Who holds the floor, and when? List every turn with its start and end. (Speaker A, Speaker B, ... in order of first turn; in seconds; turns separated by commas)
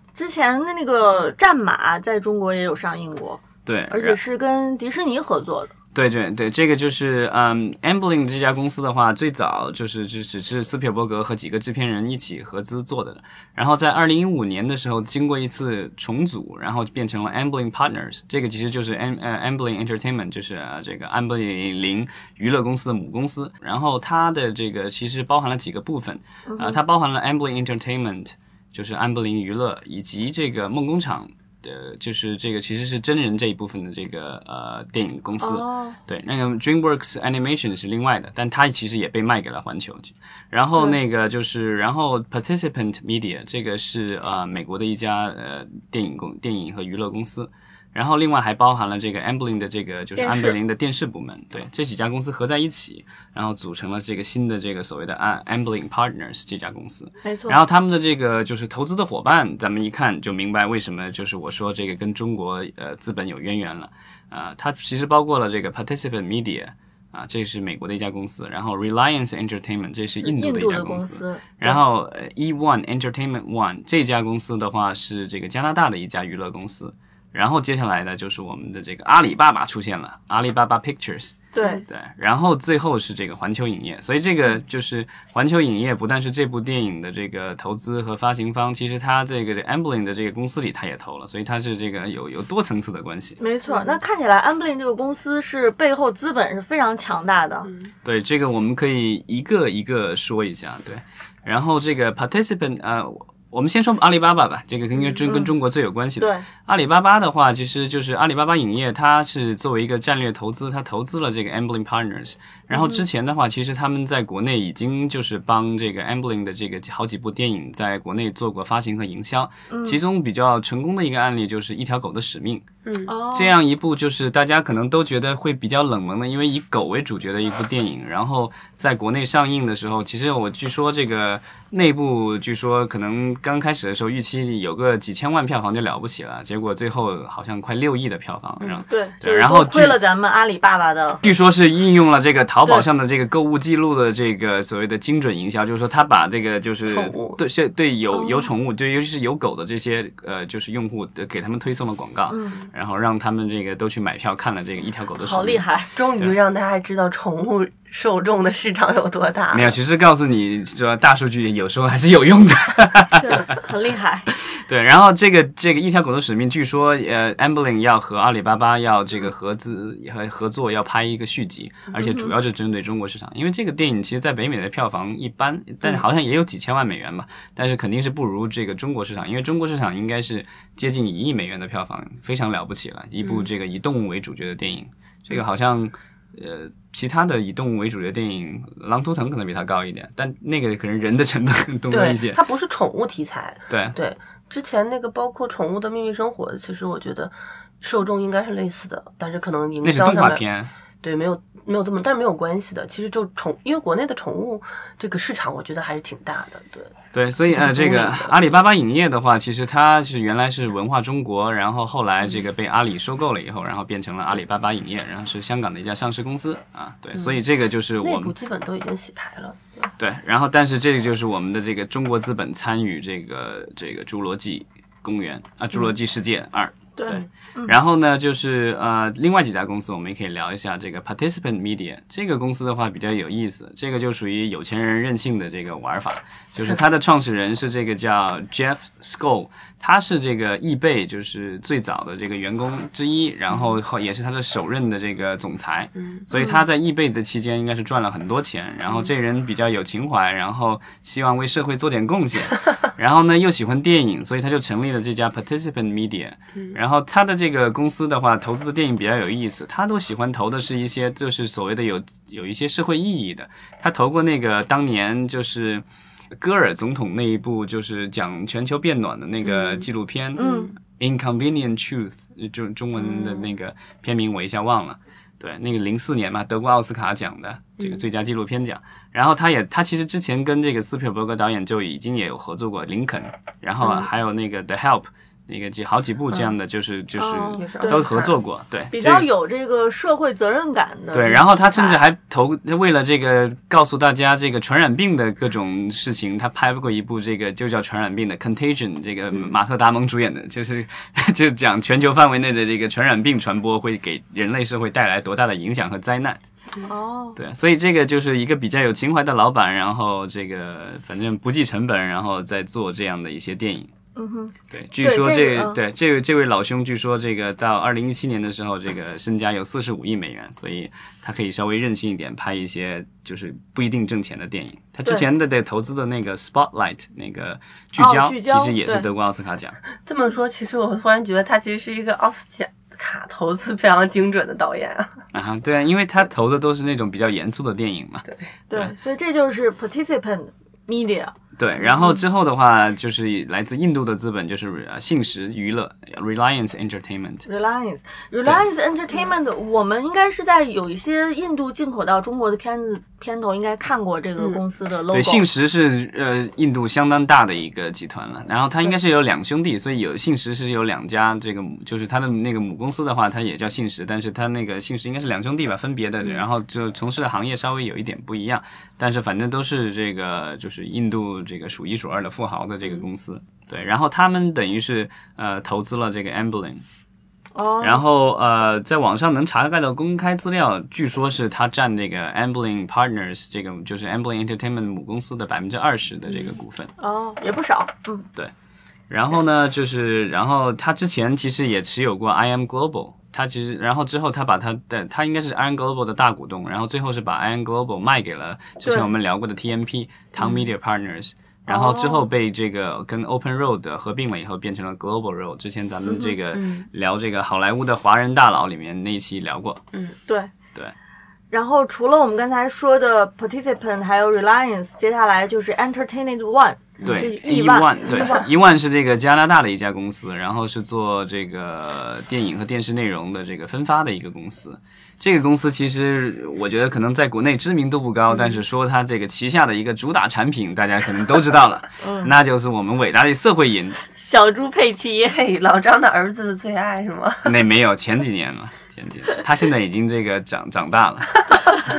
Speaker A: 0.1-5.7, Speaker B: 3.6-4.2, Speaker B: 5.9-93.4, Speaker A: 26.5-26.8, Speaker A: 35.4-36.0, Speaker A: 50.2-50.5, Speaker A: 57.2-57.6, Speaker A: 70.2-71.8, Speaker A: 81.5-81.8, Speaker A: 93.4-97.7, Speaker C: 93.7-94.0, Speaker B: 98.0-122.6, Speaker A: 105.3-105.5, Speaker A: 106.2-106.4, Speaker A: 112.7-113.0, Speaker A: 119.7-120.0, Speaker C: 122.8-123.1, Speaker A: 123.1-123.5, Speaker B: 123.3-139.9, Speaker A: 138.9-141.2, Speaker B: 141.2-155.6, Speaker C: 146.9-147.4, Speaker A: 148.1-148.5, Speaker A: 152.3-152.7, Speaker A: 155.2-155.9, Speaker C: 155.9-159.8, Speaker B: 159.5-163.6, Speaker A: 163.2-164.3, Speaker B: 164.5-192.4, Speaker A: 172.0-172.3, Speaker C: 191.9-200.4, Speaker B: 193.7-194.0, Speaker B: 199.8-200.7, Speaker C: 201.0-206.9, Speaker B: 207.1-218.3, Speaker C: 207.5-208.4, Speaker C: 218.0-219.9, Speaker B: 220.0-265.8, Speaker A: 227.0-227.7, Speaker A: 246.3-246.6, Speaker B: 266.4-289.2, Speaker C: 269.4-269.9, Speaker A: 270.4-270.7, Speaker C: 270.4-270.7, Speaker C: 273.0-273.5, Speaker C: 283.8-284.1, Speaker A: 287.2-288.1, Speaker C: 287.6-288.4, Speaker A: 288.9-292.0, Speaker B: 291.1-306.4, Speaker A: 306.8-307.4, Speaker B: 307.3-313.9, Speaker A: 314.1-315.8, Speaker B: 314.7-329.8, Speaker A: 328.0-329.1, Speaker C: 330.0-335.2, Speaker B: 335.3-338.9, Speaker A: 338.7-341.3, Speaker B: 341.6-347.4, Speaker A: 347.5-355.4, Speaker B: 355.1-376.8, Speaker A: 377.5-378.0, Speaker B: 377.8-386.9, Speaker A: 387.0-388.3, Speaker B: 389.1-409.8, Speaker A: 398.8-399.1, Speaker A: 401.7-402.3, Speaker A: 406.0-406.3, Speaker C: 406.5-406.9, Speaker A: 410.3-410.5, Speaker A: 411.5-418.5, Speaker C: 417.0-417.3, Speaker B: 417.0-434.0, Speaker A: 432.0-432.3, Speaker A: 434.1-435.4, Speaker C: 435.2-437.6, Speaker B: 437.4-441.5